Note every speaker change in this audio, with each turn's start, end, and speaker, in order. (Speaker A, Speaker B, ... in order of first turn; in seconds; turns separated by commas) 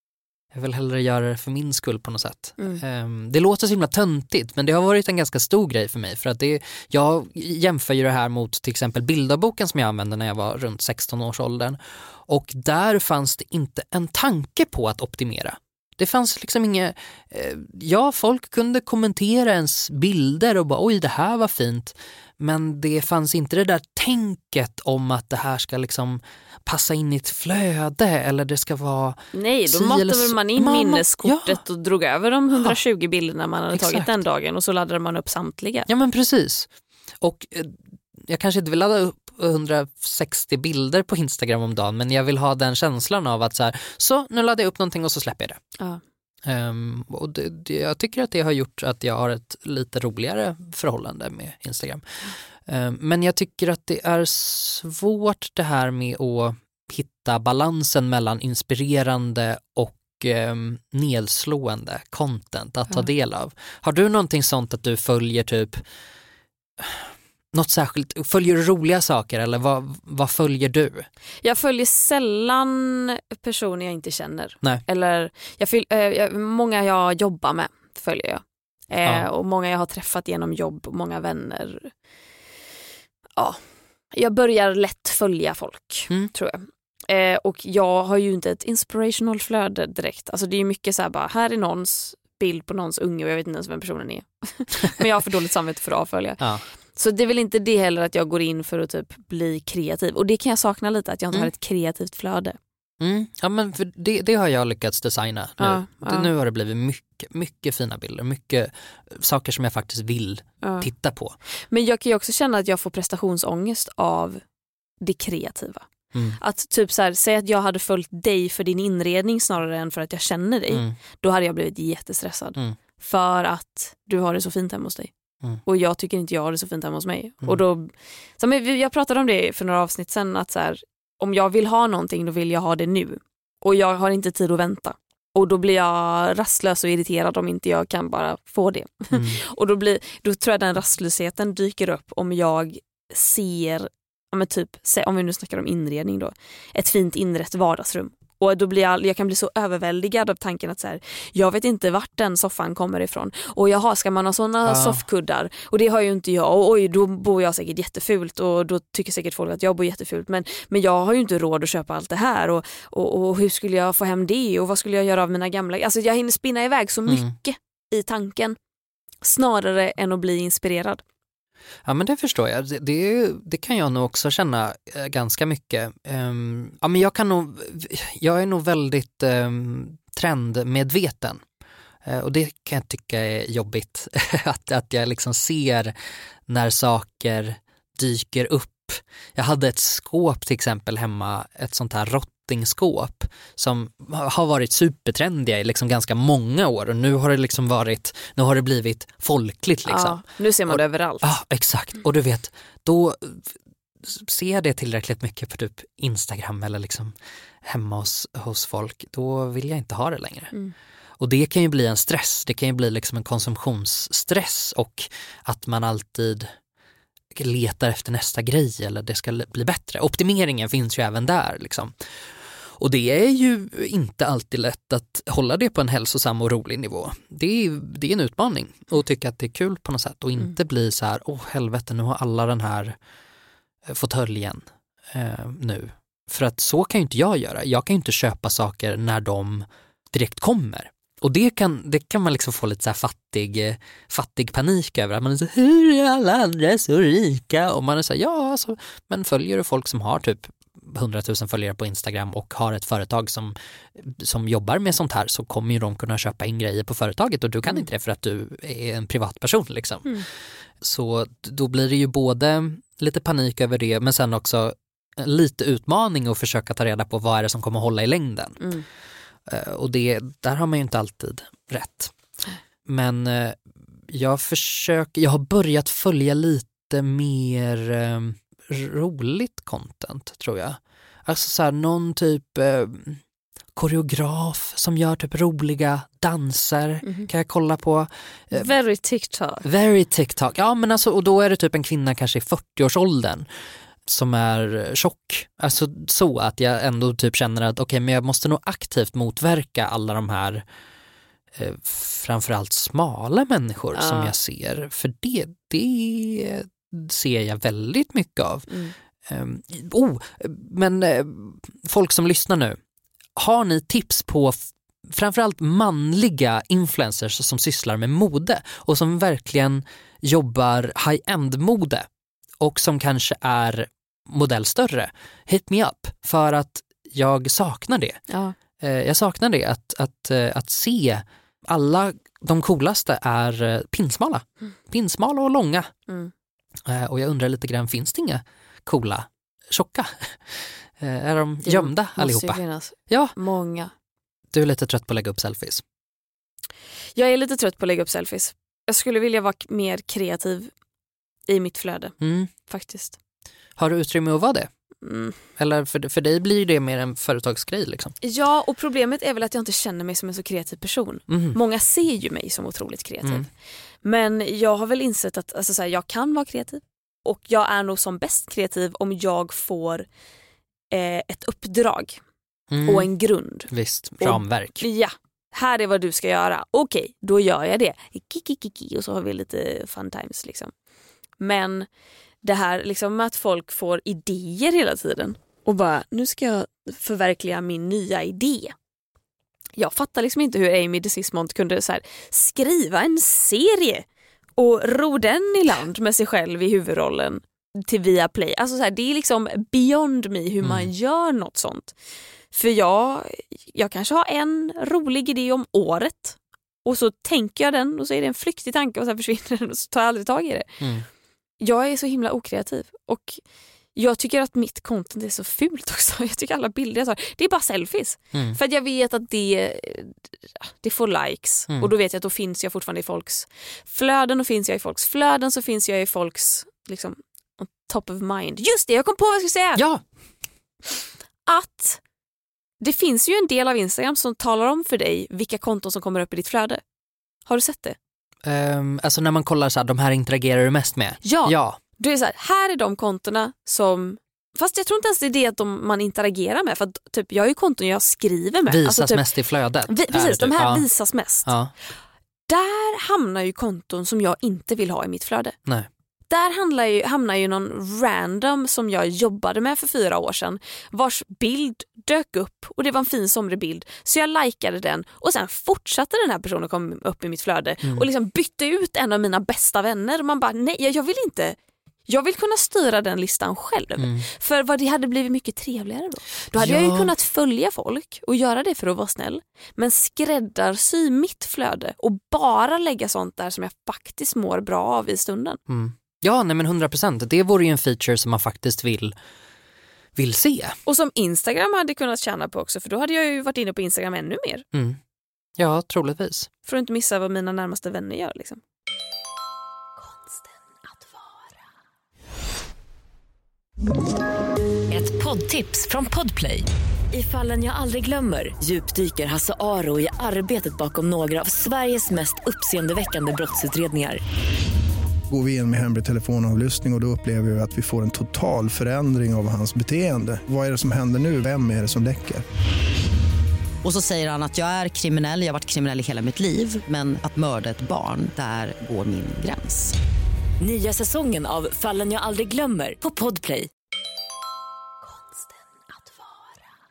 Speaker A: 0.5-31.6, Speaker B: 29.3-35.9, Speaker A: 33.7-34.1, Speaker A: 35.9-36.7, Speaker A: 37.2-45.6, Speaker A: 46.4-52.0, Speaker A: 52.6-65.8, Speaker A: 66.8-71.1, Speaker B: 71.4-81.9, Speaker B: 84.1-102.6, Speaker A: 96.4-96.6, Speaker A: 103.0-111.3, Speaker B: 105.6-106.3, Speaker B: 110.6-110.9, Speaker B: 111.7-114.4, Speaker B: 115.0-125.1, Speaker B: 125.6-168.6, Speaker A: 139.1-139.4, Speaker A: 154.6-155.0, Speaker A: 167.1-167.3, Speaker B: 169.2-171.0, Speaker A: 171.8-181.4, Speaker A: 182.0-185.9, Speaker A: 186.5-203.5, Speaker B: 199.8-201.3, Speaker A: 204.0-210.5, Speaker A: 211.2-216.5, Speaker A: 217.3-221.9, Speaker A: 222.8-233.0, Speaker A: 233.9-260.2, Speaker A: 260.8-268.6, Speaker B: 268.6-268.9, Speaker A: 269.5-272.1, Speaker A: 272.9-283.2, Speaker A: 283.8-288.7, Speaker B: 287.0-287.3, Speaker B: 288.5-289.6, Speaker A: 289.6-293.4, Speaker A: 294.1-300.6, Speaker A: 301.5-308.7, Speaker B: 303.9-304.3, Speaker B: 308.7-308.9, Speaker A: 309.2-312.8, Speaker A: 313.4-322.1, Speaker A: 322.6-328.2, Speaker B: 328.3-328.5, Speaker A: 328.8-335.9, Speaker A: 336.9-343.3, Speaker B: 341.6-343.9, Speaker A: 344.5-345.8, Speaker B: 347.1-350.7, Speaker B: 351.5-352.1, Speaker A: 352.2-352.5, Speaker B: 352.6-353.2, Speaker A: 353.8-354.7, Speaker B: 355.0-355.4, Speaker A: 355.6-358.1, Speaker B: 358.2-363.5, Speaker A: 361.3-361.6, Speaker B: 364.0-370.1, Speaker B: 370.9-372.2, Speaker A: 372.7-373.1, Speaker B: 372.8-380.7, Speaker A: 373.7-374.9, Speaker B: 381.4-381.9, Speaker B: 382.4-388.7, Speaker B: 389.8-394.1, Speaker B: 394.6-401.9, Speaker A: 400.6-400.9, Speaker B: 402.5-410.8, Speaker B: 411.6-413.4, Speaker B: 413.9-420.2, Speaker B: 420.8-429.8, Speaker A: 429.8-430.0, Speaker B: 431.4-432.0, Speaker B: 432.8-436.8, Speaker B: 437.5-438.0, Speaker A: 438.4-441.8, Speaker B: 441.2-449.3, Speaker A: 448.7-450.9, Speaker B: 449.9-451.5, Speaker A: 451.4-451.7, Speaker B: 452.5-455.6, Speaker B: 456.3-471.6, Speaker B: 472.1-485.6, Speaker A: 474.0-474.2, Speaker A: 476.5-477.1, Speaker A: 485.7-489.1, Speaker A: 490.1-490.8, Speaker B: 490.9-494.6, Speaker A: 494.7-495.0, Speaker A: 495.6-496.5, Speaker B: 496.6-498.6, Speaker C: 504.9-514.2, Speaker D: 515.3-522.4, Speaker E: 523.8-529.9, Speaker C: 530.6-533.7